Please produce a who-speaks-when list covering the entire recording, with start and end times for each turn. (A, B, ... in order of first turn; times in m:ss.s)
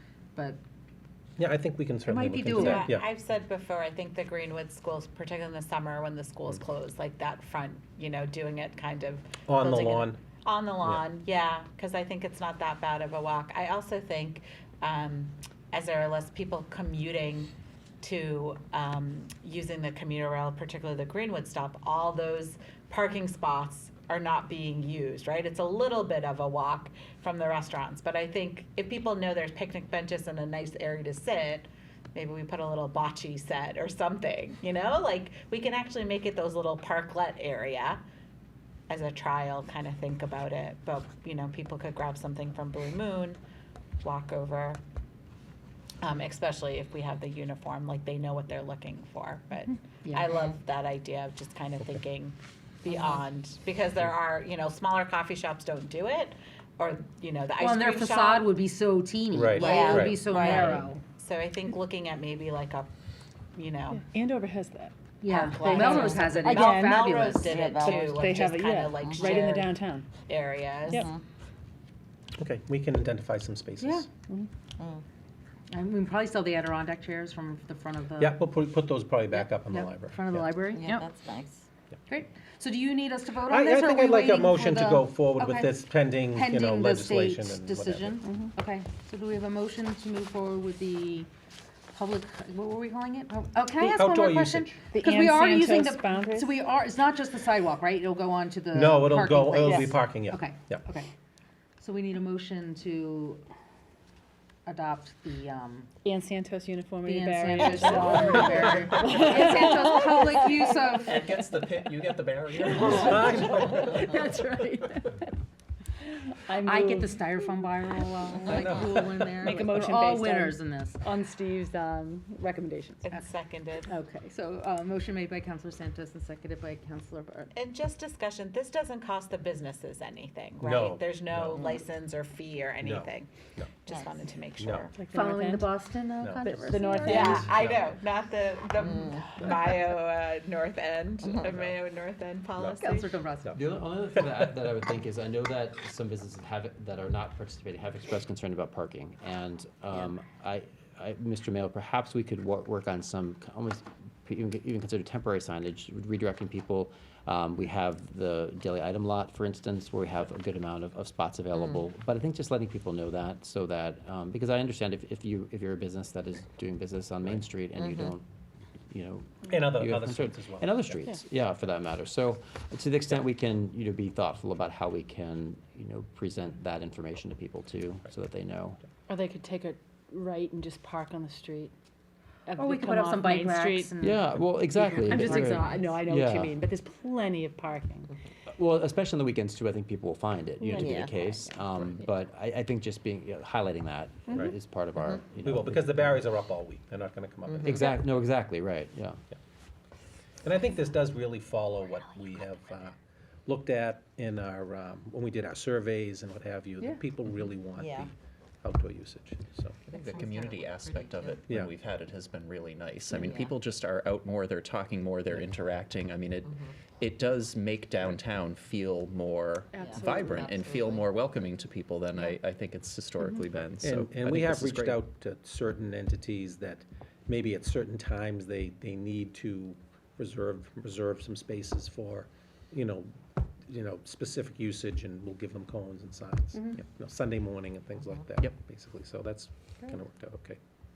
0:00.3-0:00.6 A
0:01.4-0:03.0 B
0:02.1-0:02.9 A
0:02.5-0:38.0 C
0:09.5-0:10.2 B
0:38.9-0:43.4 C
0:44.0-0:44.8 C
0:46.0-0:58.5 C
0:50.0-0:50.3 A
0:57.6-1:01.0 A
0:59.3-1:00.8 B
0:59.5-1:00.8 D
1:01.2-1:02.9 C
1:03.5-1:04.0 C
1:03.9-1:04.9 E
1:05.2-1:08.0 A
1:05.2-1:11.2 C
1:05.6-1:07.2 E
1:07.4-1:08.5 D
1:08.1-1:10.1 E
1:09.0-1:09.4 D
1:10.9-1:11.2 D
1:12.4-1:14.1 B
1:13.8-1:14.0 A
1:14.8-1:15.0 D
1:15.7-1:18.4 A
1:18.2-1:20.5 B
1:19.4-1:21.1 A
1:20.7-1:21.6 D
1:22.1-1:31.3 A
1:23.5-1:28.2 B
1:28.2-1:28.5 E
1:31.9-1:41.1 A
1:33.8-1:34.1 E
1:34.0-1:34.8 B
1:34.9-1:36.6 E
1:38.7-1:40.8 B
1:39.6-1:39.9 E
1:41.8-1:43.4 A
1:44.6-1:45.9 A
1:46.0-1:50.9 E
1:47.0-1:51.4 A
1:47.7-1:49.8 F
1:51.0-1:53.8 F
1:52.6-1:55.3 E
1:52.8-1:53.8 B
1:56.1-1:57.2 E
1:56.6-2:01.0 A
1:58.5-1:59.2 B
1:59.4-2:03.1 E
2:03.0-2:03.9 C
2:03.9-2:07.5 A
2:07.5-2:13.3 C
2:10.6-2:11.8 B
2:12.8-2:13.7 B
2:13.8-2:14.9 C
2:13.9-2:14.2 D
2:14.6-2:14.9 B
2:15.0-2:15.7 E
2:15.1-2:17.4 A
2:16.2-2:17.9 B
2:16.4-2:17.5 E
2:17.0-2:23.1 C
2:18.8-2:19.3 D
2:21.2-2:21.5 D
2:22.8-2:23.6 A
2:23.5-2:48.2 G
2:47.8-2:48.1 D
2:48.9-2:58.8 G
2:49.5-2:51.0 B
2:59.1-3:01.7 E
3:02.5-3:04.0 E
3:02.6-3:05.8 A
3:04.0-3:06.6 G
3:04.9-3:08.1 E
3:08.5-3:16.2 G
3:10.6-3:11.5 E
3:10.7-3:11.5 D
3:15.4-3:17.9 B
3:17.5-3:17.8 D
3:17.6-3:19.2 G
3:20.4-3:29.8 B
3:27.8-3:28.1 D
3:29.9-3:45.0 F
3:29.9-3:31.4 D
3:33.1-3:33.5 D
3:39.7-3:40.6 E
3:39.8-3:41.1 D
3:43.8-3:53.1 B
3:53.7-4:00.6 B